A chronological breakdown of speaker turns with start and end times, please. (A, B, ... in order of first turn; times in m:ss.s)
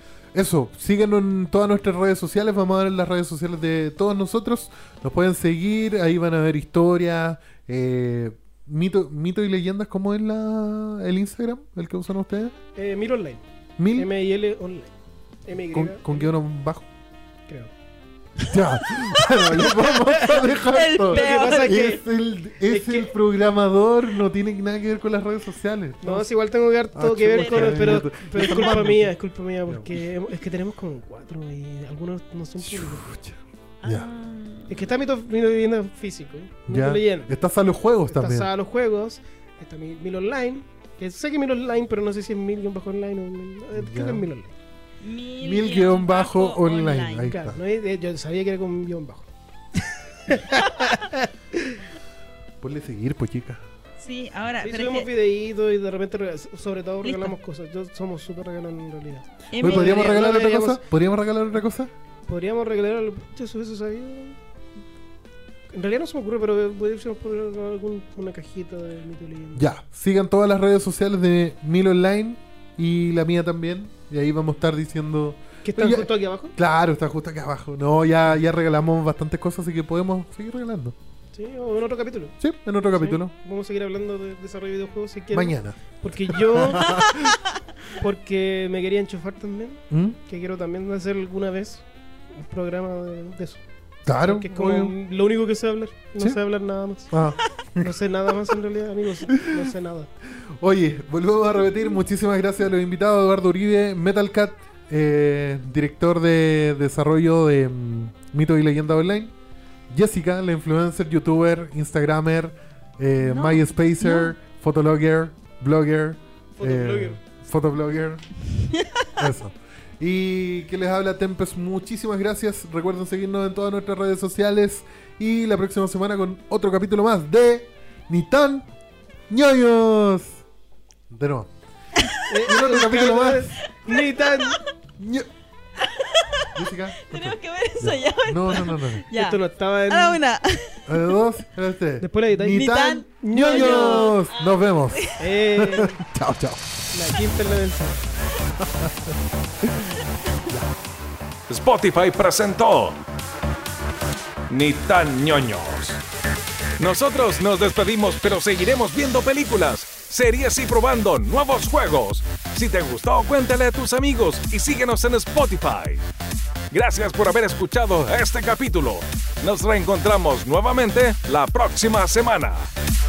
0:00.3-0:12.6 A
0:12.8-0:13.4 B
0:13.8-0:14.1 A
0:14.0-0:14.9 B
0:15.5-0:16.3 B
0:15.7-0:16.9 A
0:18.5-0:26.3 A
0:19.6-0:22.0 B
0:20.7-0:21.8 C
0:22.6-0:23.1 B
0:26.0-0:33.1 B
0:26.9-0:29.1 A
0:27.4-0:27.8 C
0:29.7-0:30.0 A
0:32.6-0:34.1 A
0:33.8-0:34.9 C
0:34.7-0:37.3 B
0:36.7-0:38.5 A
0:38.1-0:44.5 B
0:43.7-0:44.3 A
0:45.0-0:47.3 C
0:45.4-0:47.6 A
0:47.2-0:51.8 B
0:52.6-0:53.6 A
0:54.0-0:55.1 C
0:54.6-1:00.8 B
0:57.0-0:57.3 C
0:59.5-1:00.0 C
0:59.6-1:01.9 A
1:02.3-1:04.4 B
1:05.7-1:09.7 B
1:09.6-1:21.0 A
1:15.6-1:16.6 B
1:21.3-1:22.4 B
1:22.4-1:23.3 A
1:22.9-1:27.1 B
1:25.3-1:25.8 A
1:26.3-1:27.4 A
1:27.9-1:37.1 B
1:29.9-1:30.2 A
1:34.1-1:34.9 A
1:37.1-1:37.9 A
1:37.8-1:40.1 B
1:39.3-1:39.7 A
1:40.6-1:49.3 A
1:49.9-1:58.3 A
1:53.2-1:54.3 C
1:56.6-1:57.2 B
1:59.2-2:08.7 A
2:09.3-2:10.4 A
2:11.1-2:11.5 A
2:12.0-2:12.3 C
2:12.3-2:14.6 B
2:12.5-2:13.5 A
2:13.9-2:14.6 C
2:15.0-2:15.3 A
2:15.8-2:21.2 C
2:16.6-2:19.1 A
2:19.1-2:20.2 B
2:20.9-2:26.8 A
2:22.0-2:24.2 B
2:22.5-2:25.2 C
2:25.2-2:26.0 B
2:26.9-2:29.2 B
2:31.5-2:33.0 D
2:34.5-2:36.0 D
2:36.8-2:46.1 D
2:46.7-2:52.7 D